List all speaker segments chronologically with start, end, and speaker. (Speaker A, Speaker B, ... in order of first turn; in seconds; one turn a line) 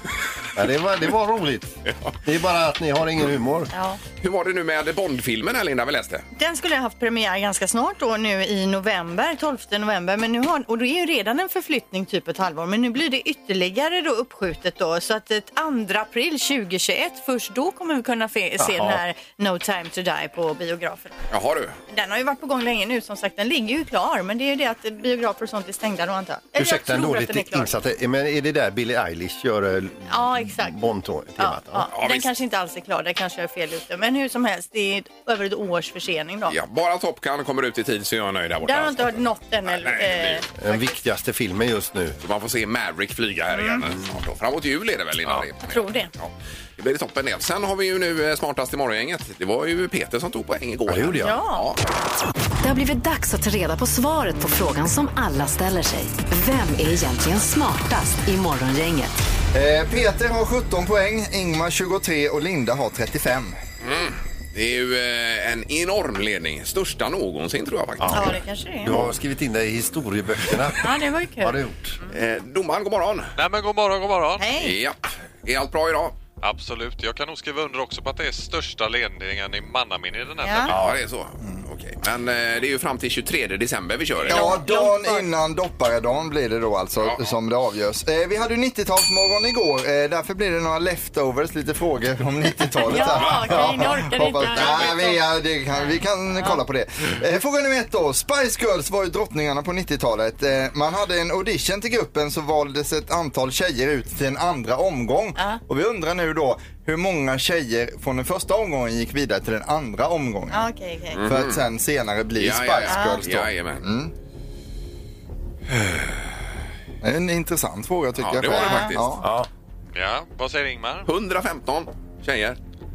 Speaker A: 0.5-3.7
Speaker B: 1.9-2.1
Speaker C: 3.7-4.0
Speaker B: 4.2-6.2
Speaker C: 6.3-21.1
Speaker A: 18.6-19.0
Speaker B: 21.3-21.8
Speaker C: 21.9-27.7
Speaker A: 26.6-31.9
Speaker C: 30.1-30.8
Speaker C: 31.4-36.5
Speaker B: 31.9-32.3
Speaker B: 36.5-40.4
Speaker C: 38.6-40.8
Speaker A: 40.6-42.2
Speaker B: 42.2-51.8
Speaker C: 43.5-43.8
Speaker C: 45.6-46.1
Speaker A: 50.9-51.4
Speaker C: 51.2-51.7
Speaker D: 52.6-59.2
Speaker E: 59.5-63.5
Speaker B: 63.8-68.4
Speaker A: 68.0-72.0
Speaker C: 68.1-68.9
Speaker C: 70.8-71.5
Speaker B: 72.1-73.3
Speaker F: 73.4-74.5
Speaker C: 74.4-74.7
Speaker B: 74.6-76.2
Speaker F: 76.4-80.8
Speaker C: 80.4-80.7
Speaker B: 80.7-84.6
Speaker E: 84.2-110.7
Speaker C: 84.3-85.3
Speaker C: 92.8-95.2
Speaker B: 93.1-93.6
Speaker C: 105.3-105.6
Speaker C: 110.5-111.2
Speaker B: 111.1-111.6
Speaker E: 111.3-114.1
Speaker B: 112.4-113.8
Speaker C: 112.9-113.2
Speaker B: 115.8-116.1
Speaker E: 117.0-119.2
Speaker B: 118.2-119.2
Speaker C: 118.5-118.9
Speaker A: 119.2-119.5
Speaker F: 119.9-121.1
Speaker B: 121.0-122.6